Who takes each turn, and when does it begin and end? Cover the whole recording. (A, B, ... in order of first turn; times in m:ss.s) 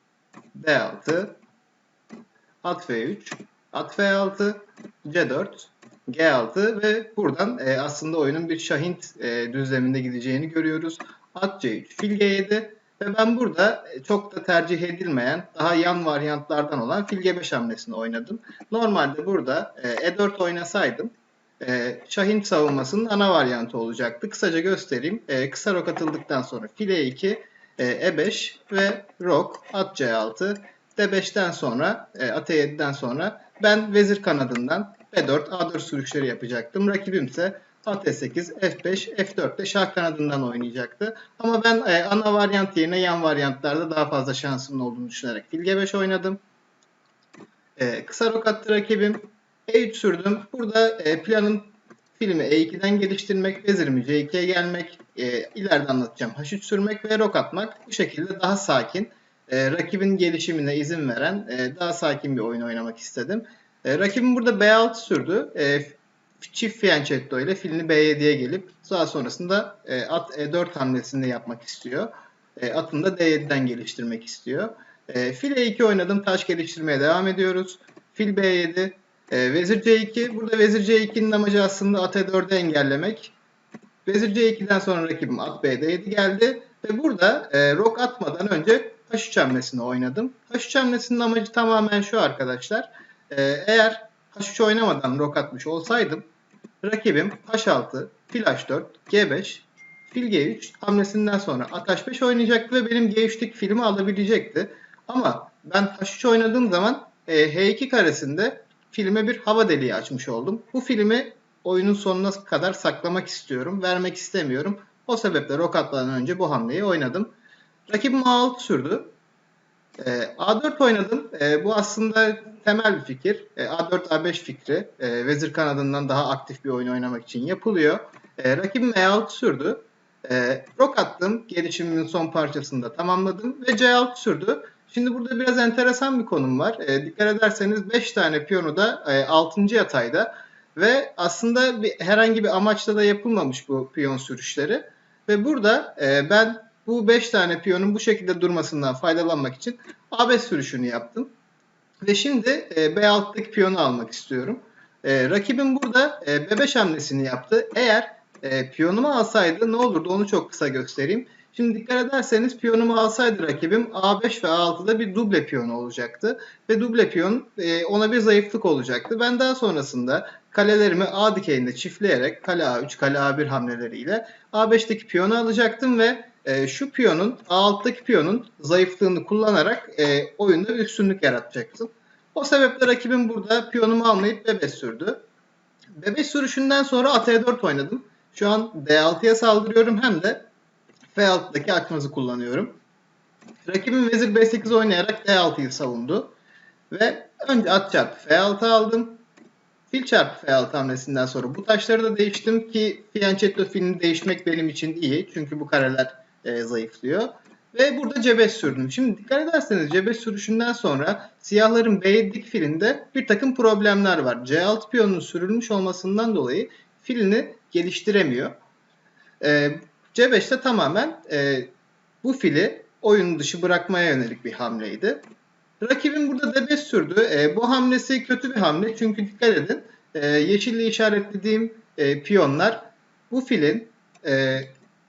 0:00.5-0:01.4 A
0:02.6-0:46.4 A
0:47.8-1:23.3 A
1:24.0-1:36.2 A
1:36.8-1:57.3 A
1:57.9-1:59.1 A
2:00.0-2:31.3 A
2:32.0-3:05.2 A
3:06.0-3:10.4 A
3:11.1-3:12.8 A
3:13.7-3:16.3 A
3:16.9-3:19.2 A
3:19.9-3:38.5 A
3:39.4-3:41.7 A
3:42.2-3:45.2 A
3:45.8-3:54.7 A